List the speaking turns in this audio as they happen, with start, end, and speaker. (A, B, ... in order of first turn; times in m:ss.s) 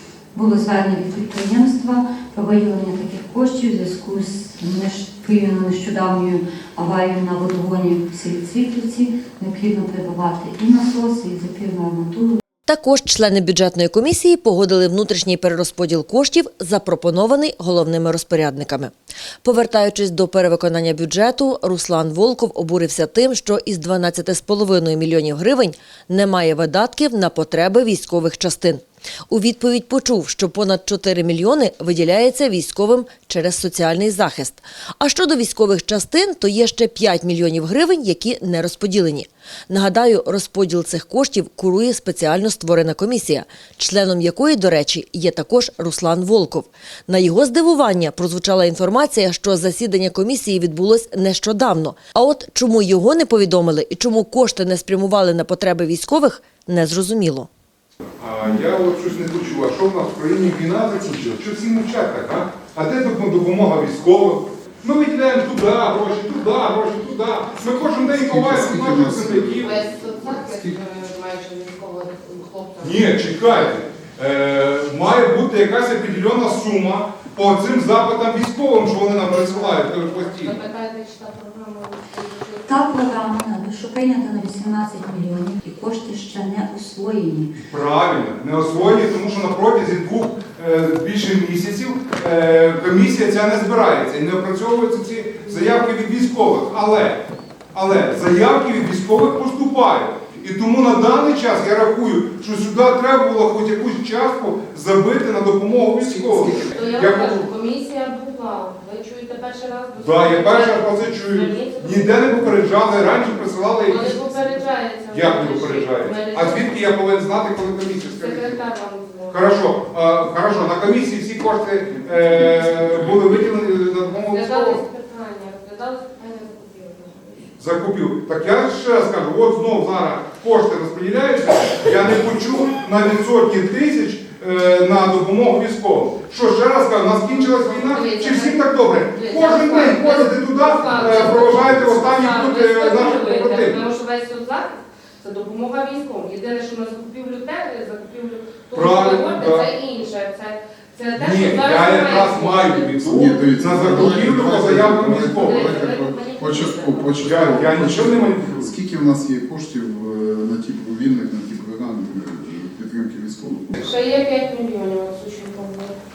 0:00.3-0:12.4 A
0:12.7-0:57.5 B
0:58.2-1:09.8 C
1:07.7-1:10.8 D
1:09.6-1:13.1 E
1:12.8-1:20.6 C
1:19.3-1:22.9 E
1:22.6-1:27.6 A
1:27.6-1:47.5 C
1:46.1-1:46.6 D
1:46.7-1:52.4 E
1:50.0-1:54.6 C
1:53.9-1:56.7 E
1:55.1-1:58.6 C
1:58.1-1:59.5 E
1:59.3-2:04.8 C
2:04.3-2:07.5 E
2:07.6-2:23.8 C
2:17.3-2:32.9 E
2:28.7-2:29.7 C
2:31.1-2:35.7 C
2:33.0-2:43.7 D
2:35.4-2:37.3 E
2:37.2-2:38.7 C
2:43.8-2:45.9 E